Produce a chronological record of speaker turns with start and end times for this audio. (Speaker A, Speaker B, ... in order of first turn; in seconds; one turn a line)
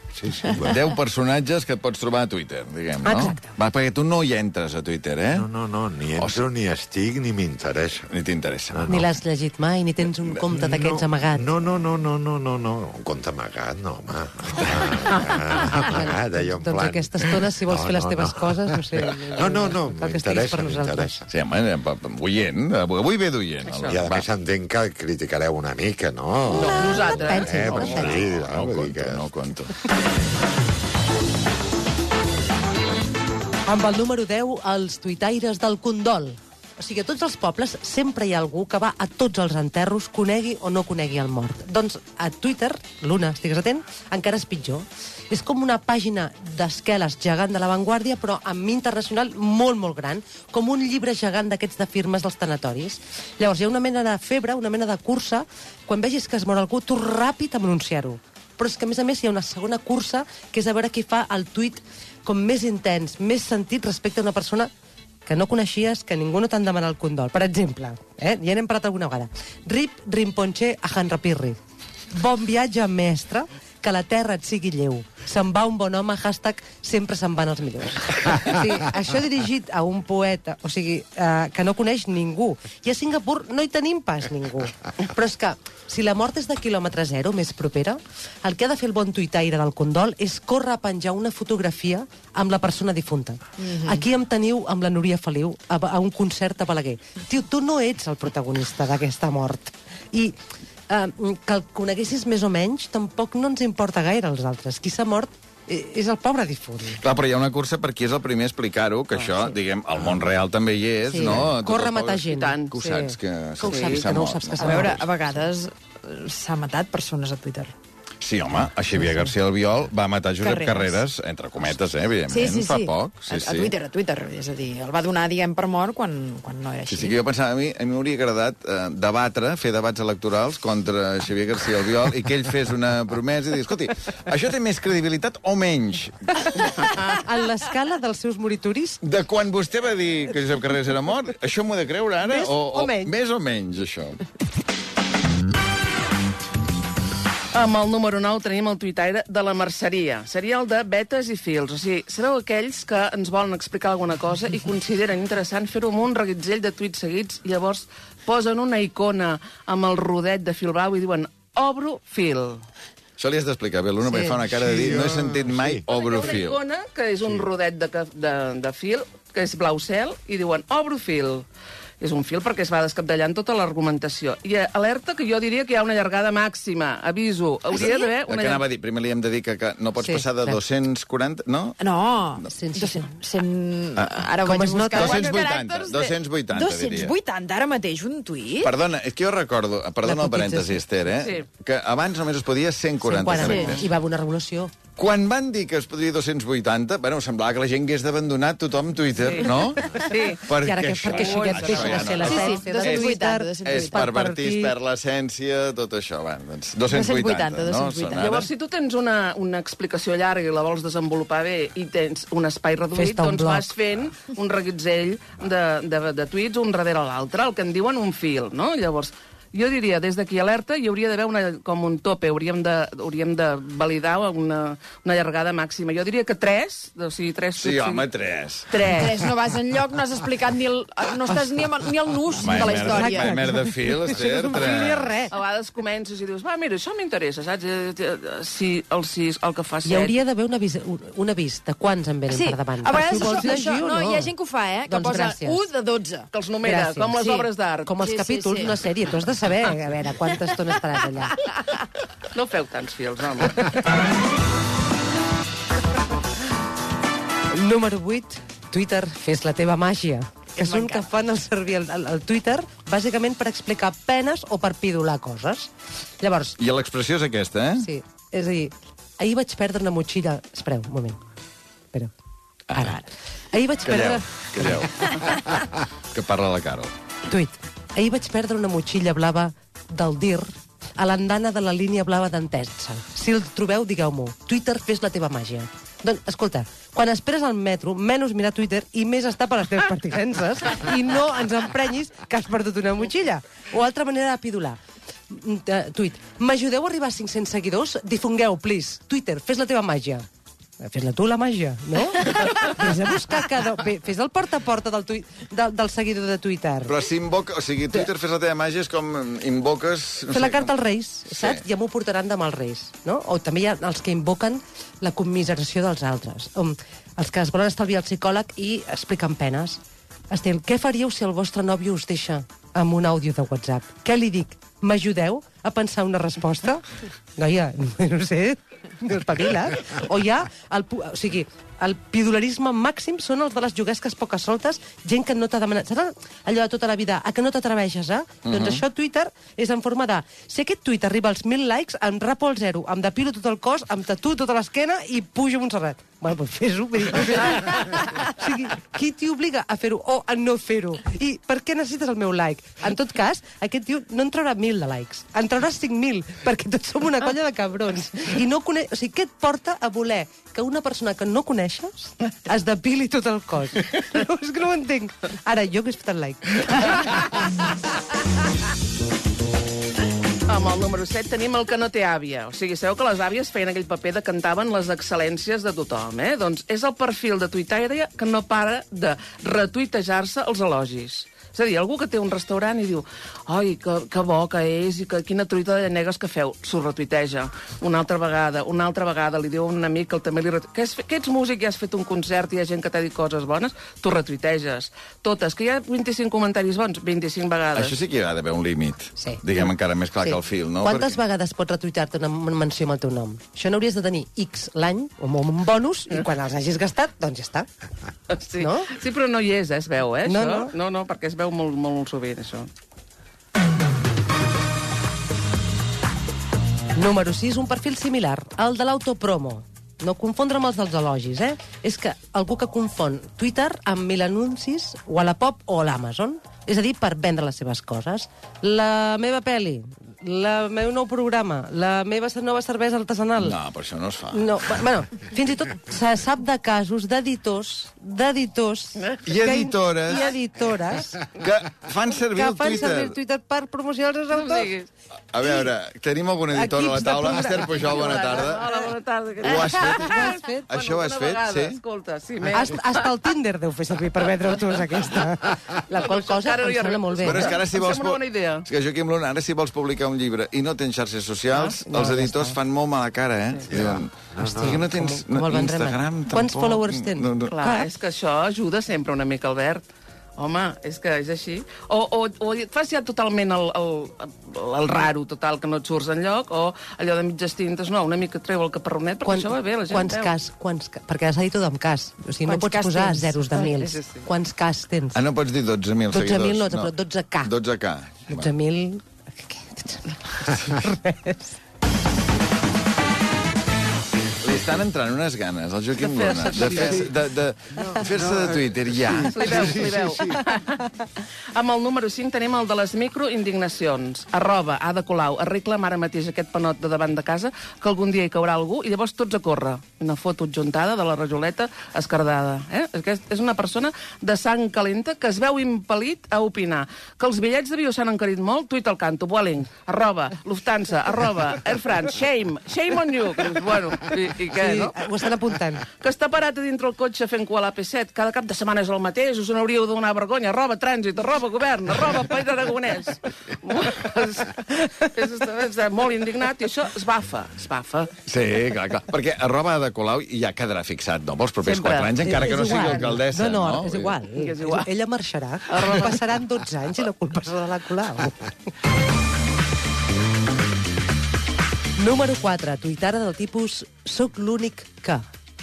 Speaker A: 0.1-0.8
Speaker B: 0.7-5.5
Speaker C: 3.0-3.6
Speaker A: 5.3-8.1
Speaker B: 6.1-6.4
Speaker B: 8.1-8.9
Speaker A: 8.7-9.1
Speaker C: 8.9-11.5
Speaker A: 10.5-21.2
Speaker C: 15.1-21.2
Speaker B: 21.3-24.2
Speaker D: 23.6-24.0
Speaker A: 23.8-29.2
Speaker C: 26.5-28.1
Speaker D: 26.5-28.3
Speaker B: 27.8-29.7
Speaker C: 33.6-64.7
Speaker C: 65.2-71.6
Speaker C: 72.1-100.4
Speaker E: 93.7-94.0
Speaker C: 100.9-107.0
Speaker B: 107.0-115.1
Speaker D: 109.1-109.4
Speaker C: 111.1-115.1
Speaker D: 112.3-112.8
Speaker D: 113.6-114.0
Speaker E: 114.6-117.7
Speaker B: 118.2-123.7
Speaker E: 118.9-119.3
Speaker E: 120.4-121.0
Speaker E: 122.2-127.2
Speaker B: 126.9-136.4
Speaker C: 137.0-139.0
Speaker B: 139.0-144.2
Speaker C: 142.2-143.2
Speaker D: 147.5-162.6
Speaker B: 163.2-166.6
Speaker C: 164.1-164.4
Speaker A: 164.5-165.9
Speaker D: 165.9-171.4
Speaker D: 172.0-178.6
Speaker B: 177.7-181.8
Speaker E: 177.8-178.1
Speaker C: 180.0-180.6
Speaker E: 181.8-188.7
Speaker C: 182.5-183.1
Speaker B: 183.9-184.3
Speaker C: 184.4-185.3
Speaker B: 184.9-187.2
Speaker B: 188.6-193.9
Speaker C: 190.0-190.8
Speaker D: 191.2-191.5
Speaker C: 193.0-194.7
Speaker E: 193.4-193.8
Speaker B: 194.9-208.4
Speaker D: 199.2-200.5
Speaker C: 200.6-204.8
Speaker D: 201.0-202.7
Speaker E: 202.2-204.1
Speaker E: 206.9-208.5
Speaker D: 208.2-228.1
Speaker C: 212.9-213.7
Speaker B: 227.6-228.8
Speaker D: 228.7-229.2
Speaker E: 228.8-233.4
Speaker B: 232.4-235.1
Speaker C: 232.6-235.3
Speaker D: 235.3-240.1
Speaker C: 239.8-244.3
Speaker E: 242.3-246.3
Speaker C: 244.8-245.7
Speaker D: 246.3-248.0
Speaker C: 246.6-251.4
Speaker E: 247.1-249.2
Speaker E: 250.8-251.8
Speaker D: 252.3-253.8
Speaker C: 257.5-265.7
Speaker E: 260.6-261.1
Speaker C: 266.2-266.6
Speaker B: 266.6-267.9
Speaker C: 267.8-271.2
Speaker B: 272.7-273.0
Speaker C: 272.7-275.1
Speaker B: 273.8-276.9
Speaker C: 277.3-294.8
Speaker C: 295.3-300.2
Speaker C: 300.8-307.0
Speaker B: 306.8-311.6
Speaker C: 310.3-319.8
Speaker C: 320.3-326.8
Speaker C: 327.4-367.3
Speaker B: 338.4-338.8
Speaker D: 370.5-398.0
Speaker B: 397.7-401.2
Speaker C: 399.2-399.4
Speaker C: 400.2-407.7
Speaker D: 408.3-412.7
Speaker C: 408.6-408.9
Speaker C: 410.2-410.7
Speaker C: 416.9-433.6
Speaker B: 433.4-434.8
Speaker C: 434.3-441.2
Speaker D: 439.0-439.5
Speaker B: 439.2-440.3
Speaker B: 441.4-443.1
Speaker C: 442.3-444.7
Speaker D: 444.3-444.9
Speaker B: 445.3-448.7
Speaker C: 445.4-445.7
Speaker C: 446.5-447.7
Speaker D: 447.7-453.1
Speaker B: 449.4-451.8
Speaker C: 449.9-450.7
Speaker C: 452.5-457.5
Speaker D: 454.5-454.8
Speaker D: 455.9-458.7
Speaker B: 457.2-467.6
Speaker D: 461.5-461.9
Speaker C: 461.8-462.6
Speaker A: 463.7-464.7
Speaker C: 464.4-467.9
Speaker D: 467.4-469.8
Speaker D: 470.4-480.3
Speaker C: 479.2-485.2
Speaker E: 482.4-483.9
Speaker D: 483.8-484.3
Speaker B: 485.1-488.5
Speaker C: 486.1-487.6
Speaker C: 488.3-491.5
Speaker B: 494.4-499.8
Speaker D: 496.0-497.1
Speaker D: 499.2-525.0
Speaker C: 524.6-525.8
Speaker D: 526.0-538.1
Speaker B: 538.2-544.2
Speaker D: 541.6-543.1
Speaker C: 542.2-548.5
Speaker D: 544.3-544.9
Speaker D: 545.7-546.2
Speaker C: 552.0-555.2